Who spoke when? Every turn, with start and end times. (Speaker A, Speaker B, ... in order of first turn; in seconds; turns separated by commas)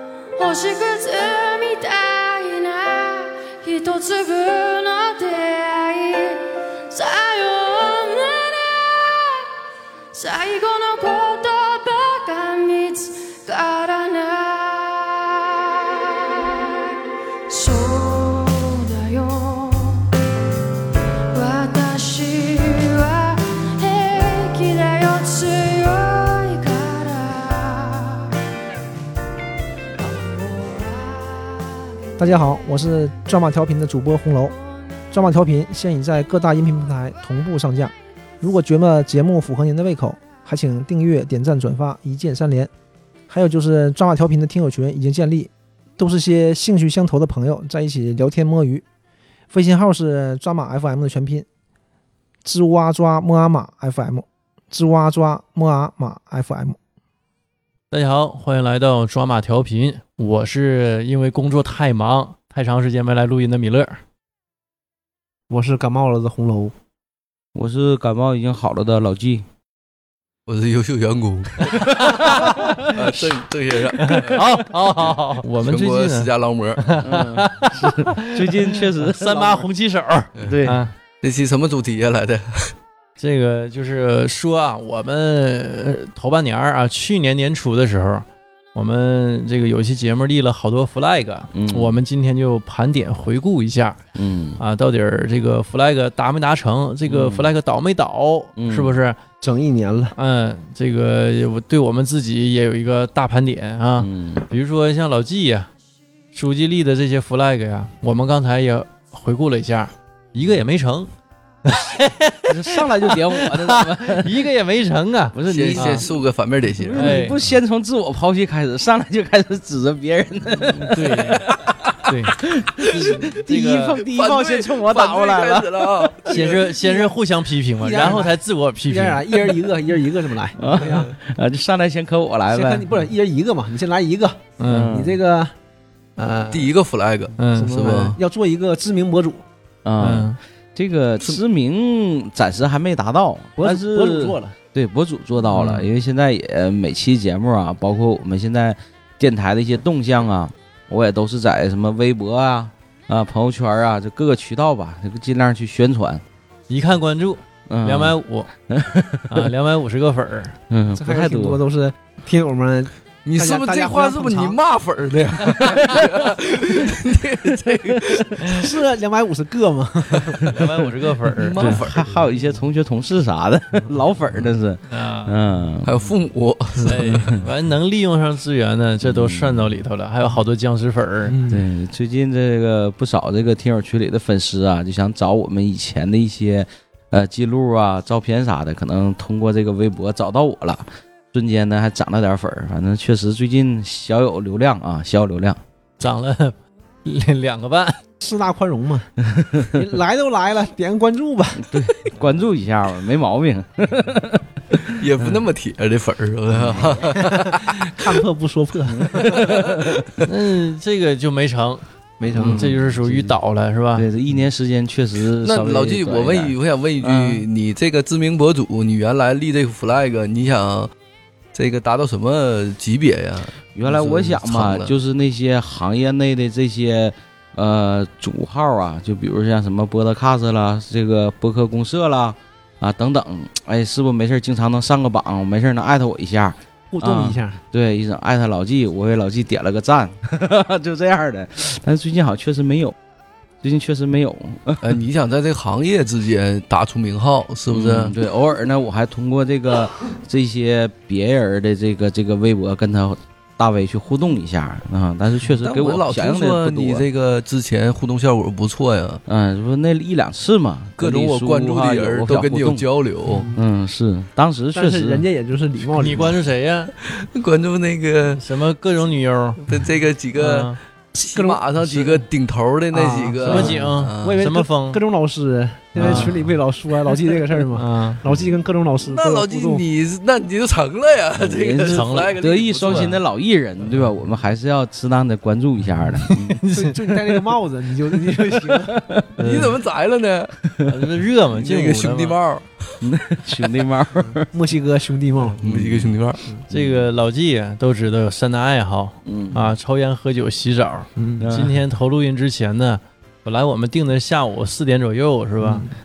Speaker A: 0.4-9.5, Speaker A: 10.1-16.9, Speaker A: 17.5-20.1, Speaker A: 21.3-28.4, Speaker A: 30.0-31.9, Speaker B: 32.2-34.5, Speaker B: 35.1-42.7, Speaker B: 43.3-48.8, Speaker B: 49.5-51.5, Speaker B: 52.5-56.8, Speaker C: 57.9-64.0, Speaker B: 65.5-66.7, Speaker D: 67.5-69.4, Speaker E: 70.5-74.4, Speaker D: 71.7-72.3, Speaker C: 71.7-73.2, Speaker C: 74.0-80.9, Speaker E: 75.6-77.0, Speaker D: 77.0-79.5, Speaker B: 79.2-79.7, Speaker D: 80.4-80.8, Speaker E: 81.2-82.7, Speaker C: 83.2-94.0, Speaker D: 91.5-92.0, Speaker D: 94.2-94.6, Speaker C: 94.6-99.2, Speaker D: 97.1-97.5, Speaker D: 98.6-99.0, Speaker B: 99.4-100.2, Speaker C: 100.2-105.7, Speaker D: 104.0-104.5, Speaker C: 106.3-111.1, Speaker C: 111.7-116.1, Speaker D: 112.5-114.5, Speaker D: 115.3-116.2, Speaker E: 115.5-117.2, Speaker D: 116.8-126.3, Speaker C: 117.0-117.4, Speaker C: 120.6-122.4, Speaker C: 122.9-124.0, Speaker E: 124.1-126.6, Speaker C: 126.3-129.3, Speaker B: 126.5-127.1, Speaker B: 127.8-131.1, Speaker D: 130.6-132.9, Speaker B: 132.5-135.5, Speaker C: 134.6-135.0, Speaker D: 134.7-135.2, Speaker B: 136.2-136.7, Speaker E: 136.5-138.2, Speaker C: 137.4-137.7, Speaker B: 137.5-139.4, Speaker D: 139.8-156.2, Speaker C: 140.0-140.4, Speaker B: 143.6-144.6, Speaker C: 156.7-158.5, Speaker D: 157.7-158.2, Speaker D: 158.7-159.5, Speaker C: 159.3-160.6, Speaker D: 160.7-161.6, Speaker B: 160.9-164.6, Speaker E: 163.2-168.7, Speaker D: 165.5-166.9, Speaker D: 167.5-168.2, Speaker B: 168.5-170.6, Speaker C: 170.5-171.8, Speaker E: 171.4-172.2, Speaker D: 171.5-176.1, Speaker C: 174.9-175.3, Speaker E: 175.8-177.4, Speaker B: 176.8-177.1, Speaker C: 176.8-181.4, Speaker D: 179.0-179.8, Speaker B: 181.3-181.7, Speaker D: 181.5-195.6, Speaker C: 196.0-198.0, Speaker B: 198.2-199.1, Speaker D: 199.2-199.8, Speaker B: 199.7-202.1, Speaker D: 201.6-205.4, Speaker E: 204.8-208.1, Speaker D: 206.5-207.1, Speaker B: 207.0-209.7, Speaker E: 209.1-210.3, Speaker D: 209.2-209.9, Speaker C: 210.2-214.1, Speaker B: 212.2-212.7, Speaker D: 212.3-213.4, Speaker D: 214.0-217.4, Speaker E: 215.4-220.9, Speaker E: 221.5-224.9, Speaker D: 223.8-242.9, Speaker B: 236.9-237.6, Speaker D: 243.6-245.0, Speaker E: 244.8-248.2, Speaker D: 247.7-257.1, Speaker E: 255.5-259.2, Speaker D: 259.3-262.9, Speaker E: 261.0-263.5, Speaker B: 263.3-263.6, Speaker D: 263.6-265.3, Speaker B: 264.7-266.4, Speaker C: 266.0-266.9, Speaker E: 267.0-268.4, Speaker C: 268.4-269.6, Speaker E: 269.7-274.5, Speaker C: 270.4-270.8, Speaker B: 271.2-272.3, Speaker B: 272.9-279.8, Speaker C: 273.4-275.0, Speaker C: 276.0-276.3, Speaker C: 277.8-278.2, Speaker E: 279.1-283.2, Speaker D: 281.4-286.6, Speaker C: 281.9-283.2, Speaker C: 286.2-287.4, Speaker B: 286.7-288.9, Speaker D: 288.2-289.3, Speaker C: 289.4-289.8, Speaker E: 289.4-290.6, Speaker D: 290.6-290.9, Speaker C: 290.9-292.4, Speaker E: 291.5-293.0, Speaker D: 293.0-294.5, Speaker B: 294.4-295.6, Speaker E: 295.6-296.4, Speaker D: 295.6-296.2, Speaker C: 296.7-305.9, Speaker D: 296.7-297.1, Speaker D: 299.2-299.7, Speaker B: 301.2-301.5, Speaker D: 301.4-301.8, Speaker B: 305.6-305.9